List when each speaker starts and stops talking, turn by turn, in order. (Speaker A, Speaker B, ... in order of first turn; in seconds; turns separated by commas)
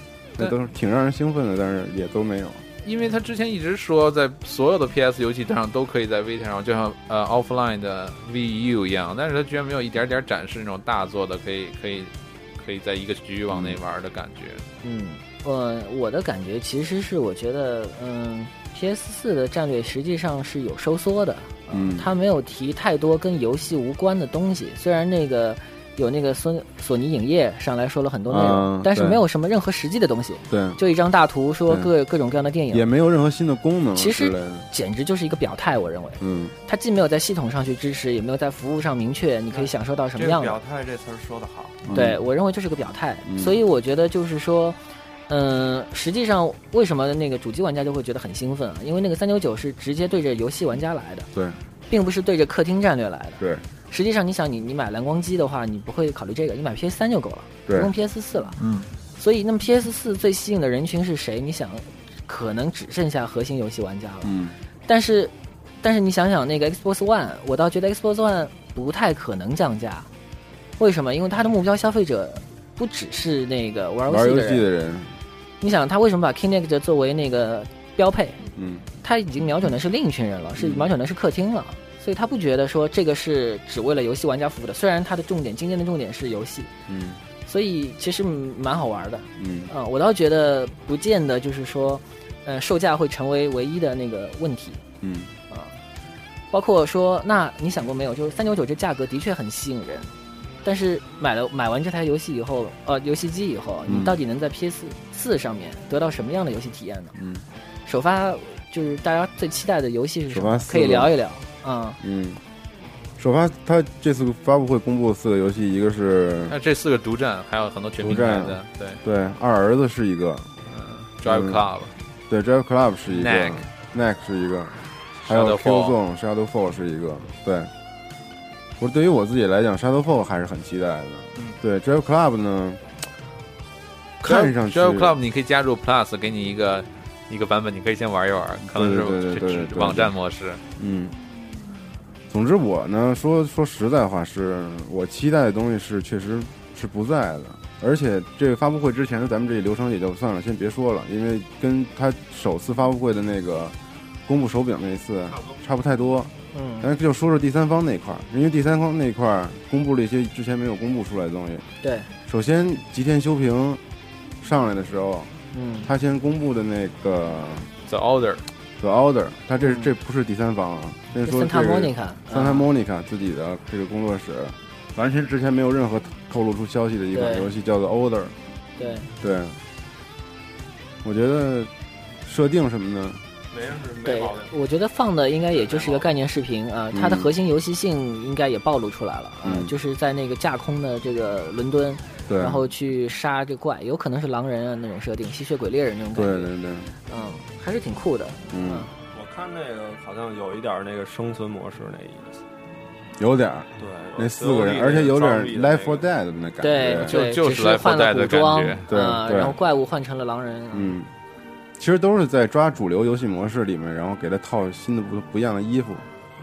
Speaker A: 0.4-2.6, Speaker B: 2.8-14.7, Speaker A: 13.5-13.8, Speaker C: 14.8-32.8, Speaker A: 21.7-22.1, Speaker A: 28.3-29.2, Speaker A: 30.5-30.8, Speaker A: 32.7-34.7, Speaker C: 33.9-40.6, Speaker A: 36.2-36.5, Speaker D: 39.5-41.9, Speaker A: 41.8-42.2, Speaker C: 41.9-44.8, Speaker A: 43.3-43.6, Speaker C: 45.3-51.3, Speaker A: 51.3-51.6, Speaker C: 51.9-58.6, Speaker A: 53.4-53.6, Speaker B: 58.6-58.9, Speaker C: 59.1-64.3, Speaker A: 64.2-64.6, Speaker C: 64.9-70.1, Speaker C: 70.8-74.7, Speaker A: 74.1-75.1, Speaker C: 75.6-78.4, Speaker A: 78.5-78.9, Speaker C: 79.0-86.7, Speaker A: 80.5-80.9, Speaker A: 86.9-87.2, Speaker C: 87.5-94.8, Speaker A: 89.4-89.7, Speaker A: 95.0-95.3, Speaker C: 95.5-95.8, Speaker C: 96.5-100.1, Speaker C: 100.6-107.1, Speaker A: 103.8-104.2, Speaker A: 107.1-107.4, Speaker C: 107.8-112.0, Speaker A: 110.3-111.1, Speaker A: 112.0-112.4, Speaker A: 113.2-116.5, Speaker B: 116.5-119.0, Speaker A: 118.0-120.6, Speaker B: 120.7-121.9, Speaker A: 121.2-121.6, Speaker A: 122.3-127.7, Speaker B: 123.1-123.7, Speaker B: 125.2-126.0, Speaker A: 128.8-132.8, Speaker A: 134.2-135.2, Speaker B: 134.2-140.6, Speaker A: 138.6-140.1, Speaker A: 140.8-141.1, Speaker A: 142.3-153.7, Speaker A: 154.2-161.7, Speaker E: 155.3-155.6, Speaker C: 156.5-156.9, Speaker C: 161.8-162.1, Speaker A: 162.2-163.8, Speaker A: 164.4-167.7, Speaker C: 165.5-165.9, Speaker B: 167.9-168.4, Speaker A: 168.8-178.3, Speaker C: 169.6-169.9, Speaker C: 171.2-172.7, Speaker C: 177.1-177.5, Speaker C: 178.8-179.1, Speaker A: 179.2-179.6, Speaker A: 181.0-181.7, Speaker A: 182.2-183.2, Speaker E: 183.5-184.5, Speaker C: 184.0-196.5, Speaker E: 185.5-186.1, Speaker A: 186.9-187.3, Speaker A: 189.4-189.7, Speaker A: 192.3-192.6, Speaker A: 196.1-196.9, Speaker C: 197.1-198.9, Speaker A: 198.5-198.9, Speaker E: 199.1-202.4, Speaker A: 203.2-207.2, Speaker E: 203.8-206.0, Speaker C: 206.6-211.0, Speaker B: 207.1-208.8, Speaker A: 208.9-209.6, Speaker A: 210.7-211.1, Speaker A: 211.8-216.0